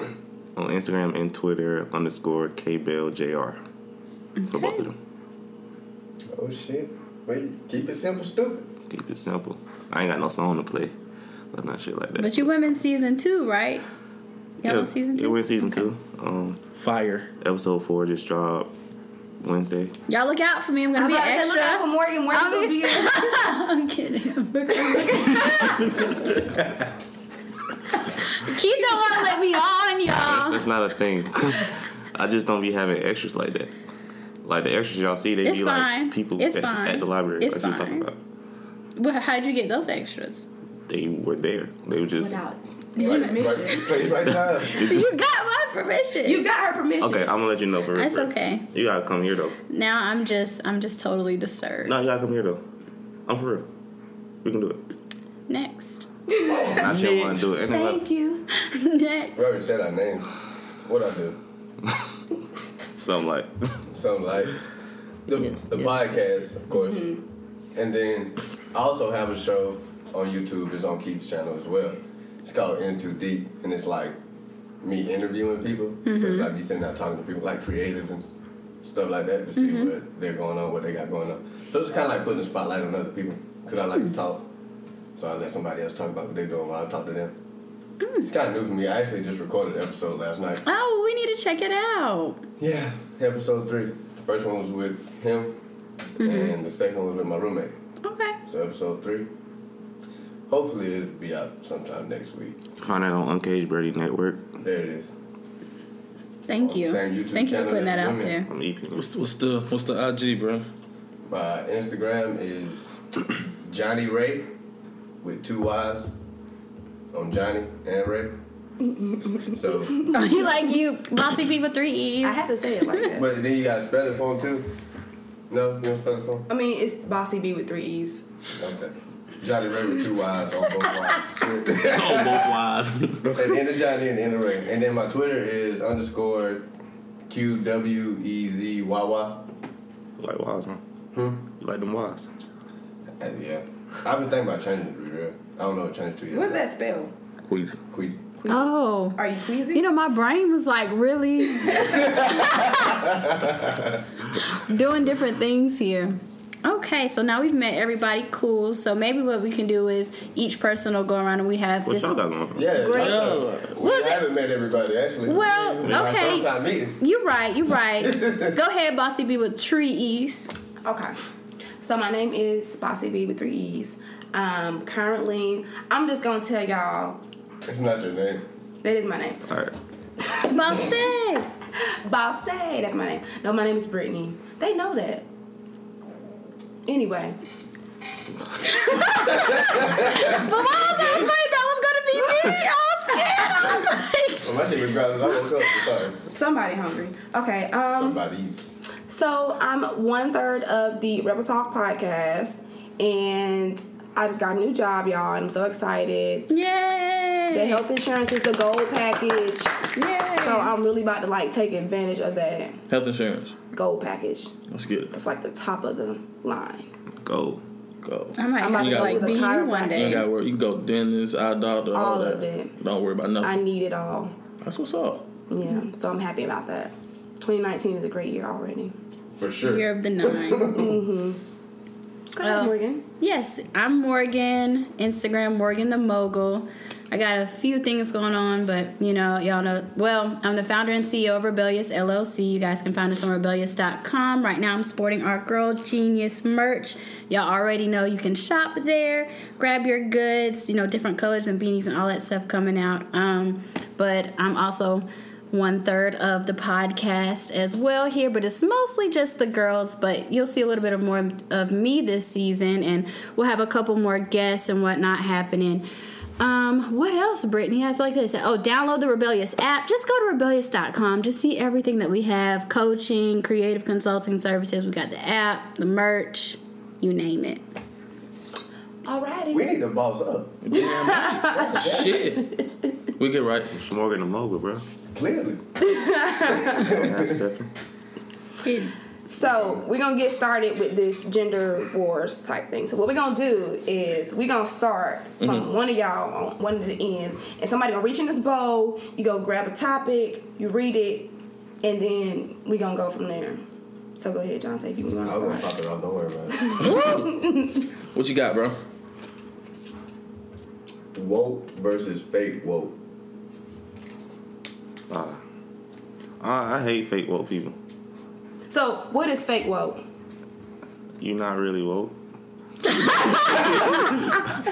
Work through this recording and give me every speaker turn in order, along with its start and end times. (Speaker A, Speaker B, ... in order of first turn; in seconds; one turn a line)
Speaker A: 0.6-3.6
Speaker B: 4.4-4.9
Speaker A: 4.5-5.0
Speaker C: 6.3-8.7
Speaker A: 8.9-10.9
Speaker A: 11.5-12.6
Speaker B: 12.2-13.8
Speaker A: 14.6-16.6
Speaker B: 14.6-15.8
Speaker D: 16.8-17.3
Speaker A: 17.4-18.7
Speaker A: 19.4-19.9
Speaker B: 20.1-25.9
Speaker E: 20.9-23.5
Speaker E: 24.5-26.2
Speaker D: 26.5-26.7
Speaker B: 28.2-30.7
Speaker A: 30.1-33.7
Speaker A: 34.4-38.2
Speaker B: 35.4-38.1
Speaker B: 39.0-40.5
Speaker A: 40.9-42.4
Speaker E: 42.2-44.1
Speaker B: 43.0-44.0
Speaker C: 43.0-44.9
Speaker A: 44.2-45.0
Speaker B: 44.7-46.5
Speaker E: 46.2-47.3
Speaker A: 47.0-49.6
Speaker B: 47.9-48.7
Speaker B: 49.7-51.9
Speaker A: 51.8-52.6
Speaker A: 53.3-53.7
Speaker A: 54.4-54.8
Speaker B: 55.5-56.1
Speaker E: 56.3-56.9
Speaker A: 56.7-58.0
Speaker D: 56.8-57.4
Speaker E: 57.7-58.5
Speaker B: 58.5-59.6
Speaker C: 59.4-61.4
Speaker A: 62.9-63.8
Speaker C: 63.9-64.6
Speaker C: 65.3-67.1
Speaker A: 65.4-65.9
Speaker E: 66.7-67.2
Speaker C: 67.7-74.1
Speaker C: 74.8-78.3
Speaker B: 76.0-76.5
Speaker C: 78.8-84.5
Speaker B: 79.6-79.9
Speaker C: 85.2-87.3
Speaker B: 88.0-88.3
Speaker C: 88.2-90.7
Speaker B: 90.6-92.4
Speaker C: 92.6-95.6
Speaker B: 96.2-96.5
Speaker C: 96.2-97.7
Speaker B: 98.0-98.4
Speaker C: 98.5-99.3
Speaker C: 100.5-102.6
Speaker A: 102.8-104.5
Speaker C: 104.6-105.2
Speaker B: 106.5-108.5
Speaker C: 106.5-108.4
Speaker A: 108.5-109.1
Speaker D: 108.9-110.7
Speaker C: 111.3-114.5
Speaker C: 115.2-116.1
Speaker C: 117.1-118.3
Speaker E: 118.8-119.5
Speaker C: 119.4-120.1
Speaker E: 120.0-120.6
Speaker B: 120.1-122.4
Speaker E: 122.2-123.3
Speaker C: 123.1-124.7
Speaker C: 125.5-126.5
Speaker E: 126.5-128.2
Speaker C: 128.6-132.5
Speaker D: 131.8-133.3
Speaker C: 133.3-136.7
Speaker C: 137.3-139.4
Speaker A: 140.2-140.8
Speaker C: 141.1-141.4
Speaker A: 141.6-142.3
Speaker C: 143.2-146.7
Speaker E: 146.3-147.1
Speaker D: 147.4-147.8
Speaker C: 147.9-148.3
Speaker E: 148.4-149.8
Speaker B: 148.5-153.0
Speaker E: 151.5-152.2
Speaker C: 151.9-154.0
Speaker B: 154.5-162.2
Speaker A: 161.8-162.8
Speaker C: 162.6-167.0
Speaker E: 162.8-163.3
Speaker D: 162.9-163.8
Speaker B: 163.8-164.3
Speaker B: 165.2-170.5
Speaker D: 165.5-165.9
Speaker C: 168.0-168.6
Speaker E: 170.8-171.2
Speaker E: 171.8-177.2
Speaker C: 177.7-178.4
Speaker E: 178.8-179.4
Speaker A: 179.4-179.8
Speaker B: 180.5-181.5
Speaker E: 181.8-185.2
Speaker E: 186.8-187.4
Speaker E: 188.7-189.2
Speaker B: 188.8-194.7
Speaker C: 189.3-190.4
Speaker C: 194.4-196.2
Speaker E: 196.2-198.2
Speaker C: 197.9-198.7
Speaker E: 199.1-206.5
Speaker B: 206.5-207.8
Speaker E: 207.5-209.8
Speaker B: 209.9-210.7
Speaker E: 210.3-212.8
Speaker D: 212.9-213.6
Speaker E: 213.7-214.5
Speaker D: 214.7-215.2
Speaker E: 215.1-216.9
Speaker A: 217.2-217.6
Speaker D: 218.0-219.4
Speaker B: 218.4-220.3
Speaker E: 218.6-220.2
Speaker D: 219.9-223.6
Speaker E: 221.9-222.7
Speaker E: 223.4-224.3
Speaker D: 224.6-225.3
Speaker E: 225.5-228.9
Speaker C: 229.4-231.0
Speaker B: 229.6-230.8
Speaker E: 230.7-231.4
Speaker E: 232.3-233.0
Speaker B: 232.4-265.9
Speaker B: 266.4-277.6
Speaker E: 279.0-279.7
Speaker C: 279.5-280.9
Speaker D: 280.6-282.6
Speaker E: 280.8-281.8
Speaker C: 281.5-282.2
Speaker E: 282.3-282.7
Speaker D: 283.2-283.7
Speaker A: 283.7-284.9
Speaker C: 285.1-287.4
Speaker E: 285.8-286.7
Speaker A: 286.7-287.7
Speaker B: 288.6-288.9
Speaker E: 289.3-301.3
Speaker C: 289.4-289.8
Speaker D: 295.4-295.7
Speaker E: 301.8-303.6
Speaker E: 304.1-305.8
Speaker C: 305.2-306.8
Speaker E: 306.6-307.8
Speaker B: 306.8-307.2
Speaker D: 308.1-308.8
Speaker C: 311.1-312.9
Speaker A: 315.1-315.4
Speaker A: 316.4-317.8
Speaker E: 318.7-320.0
Speaker A: 321.2-322.2
Speaker A: 323.2-324.5